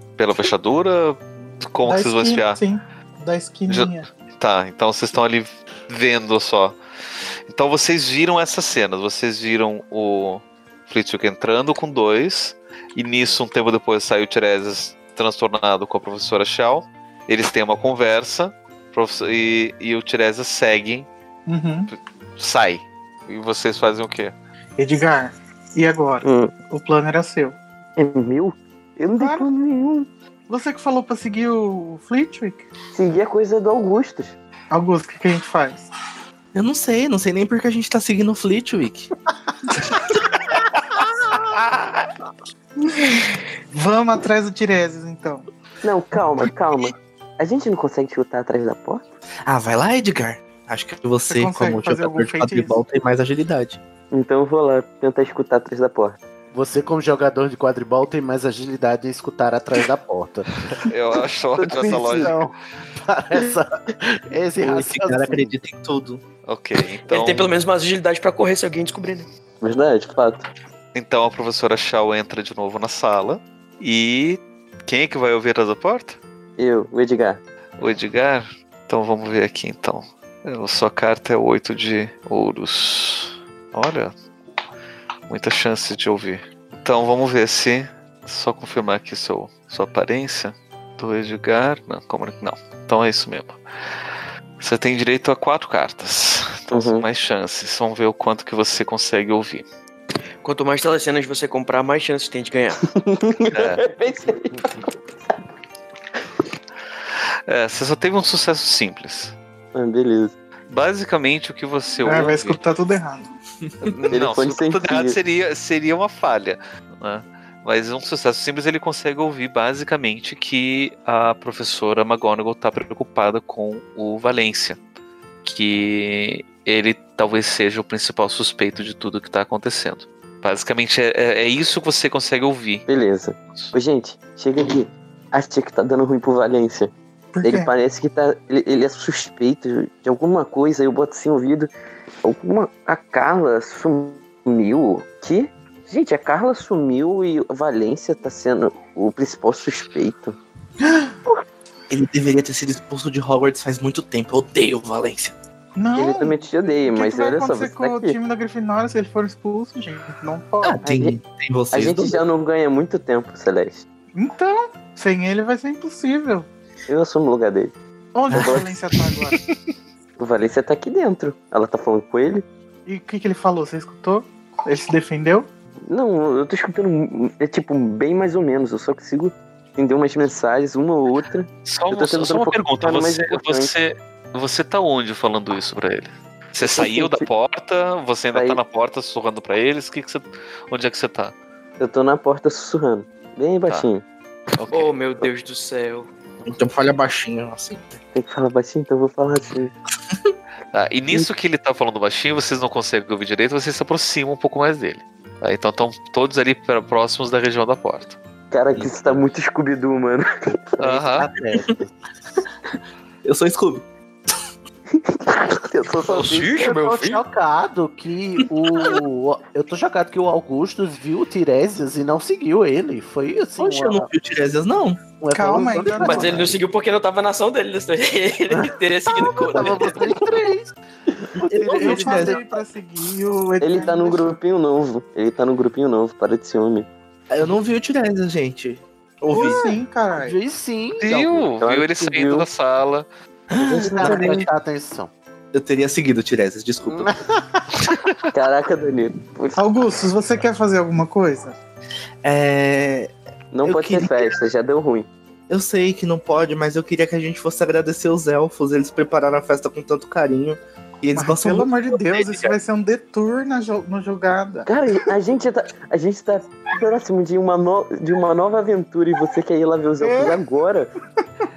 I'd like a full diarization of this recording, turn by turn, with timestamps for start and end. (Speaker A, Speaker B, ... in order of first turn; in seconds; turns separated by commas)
Speaker A: 0.2-2.6, Speaker B: 1.9-4.1, Speaker A: 3.7-6.8, Speaker A: 7.5-21.1, Speaker B: 21.5-21.9, Speaker A: 21.9-24.3, Speaker B: 24.8-27.6, Speaker C: 26.2-26.5, Speaker C: 28.0-30.1, Speaker B: 29.1-29.5, Speaker B: 30.5-32.7, Speaker C: 32.9-34.4, Speaker B: 34.7-35.9, Speaker D: 36.5-39.1, Speaker E: 41.3-42.0, Speaker B: 43.0-45.5, Speaker C: 45.8-49.0, Speaker D: 49.5-53.8, Speaker B: 51.2-52.8, Speaker C: 54.1-56.2, Speaker E: 56.5-60.5, Speaker A: 60.8-62.4, Speaker C: 61.6-62.3, Speaker E: 61.6-65.5, Speaker D: 64.6-66.2, Speaker A: 66.5-67.5, Speaker F: 67.1-69.3, Speaker C: 69.6-70.5, Speaker A: 70.9-76.2, Speaker C: 76.6-77.4, Speaker A: 77.8-84.1, Speaker A: 85.3-93.6, Speaker A: 94.6-99.7, Speaker C: 96.7-97.1, Speaker F: 100.4-102.8, Speaker C: 102.9-104.9, Speaker A: 103.5-103.8, Speaker A: 107.5-109.3, Speaker C: 109.7-110.3, Speaker A: 110.7-112.6, Speaker B: 112.0-113.3, Speaker A: 113.8-124.8, Speaker C: 114.1-115.2, Speaker A: 125.4-132.9, Speaker C: 132.9-136.9, Speaker B: 137.3-137.7, Speaker C: 137.4-141.7, Speaker C: 142.2-150.4, Speaker D: 151.9-155.3, Speaker B: 155.8-160.8, Speaker C: 155.9-158.2, Speaker D: 160.6-162.2, Speaker C: 160.8-161.2, Speaker C: 161.7-163.8, Speaker B: 164.2-166.5, Speaker C: 166.9-167.7, Speaker B: 168.2-169.4, Speaker D: 168.3-168.7, Speaker C: 168.3-168.7, Speaker C: 170.2-172.4, Speaker B: 172.9-175.5, Speaker C: 175.9-183.7, Speaker A: 181.7-191.3, Speaker C: 186.6-187.3, Speaker C: 188.3-188.6, Speaker C: 191.8-194.0, Speaker A: 194.6-194.9, Speaker F: 194.7-196.1, Speaker D: 196.5-198.0, Speaker C: 198.1-199.7, Speaker A: 200.7-208.2, Speaker C: 208.5-211.1, Speaker A: 210.8-211.3, Speaker E: 211.2-211.9, Speaker D: 211.2-211.7, Speaker D: 213.2-213.9, Speaker C: 214.9-216.7, Speaker F: 216.1-217.2, Speaker E: 216.6-224.1, Speaker D: 223.6-225.0, Speaker E: 225.2-226.6, Speaker B: 225.3-226.4, Speaker F: 226.0-230.1, Speaker E: 228.5-230.7, Speaker E: 231.2-232.4, Speaker D: 231.4-232.4, Speaker B: 231.8-234.3, Speaker C: 233.6-236.9, Speaker D: 237.3-239.8, Speaker B: 239.3-240.4, Speaker E: 240.2-241.5, Speaker A: 241.0-243.1, Speaker C: 241.6-242.5, Speaker D: 243.5-244.5, Speaker C: 243.7-244.4, Speaker E: 243.8-245.1, Speaker D: 245.5-247.1, Speaker E: 246.9-247.7, Speaker A: 247.9-248.1, Speaker C: 248.3-249.6, Speaker B: 249.6-251.6, Speaker D: 252.2-253.1, Speaker C: 253.5-255.1, Speaker D: 253.7-254.4, Speaker D: 255.5-262.6, Speaker B: 261.1-264.7, Speaker C: 264.7-270.9, Speaker B: 270.0-270.4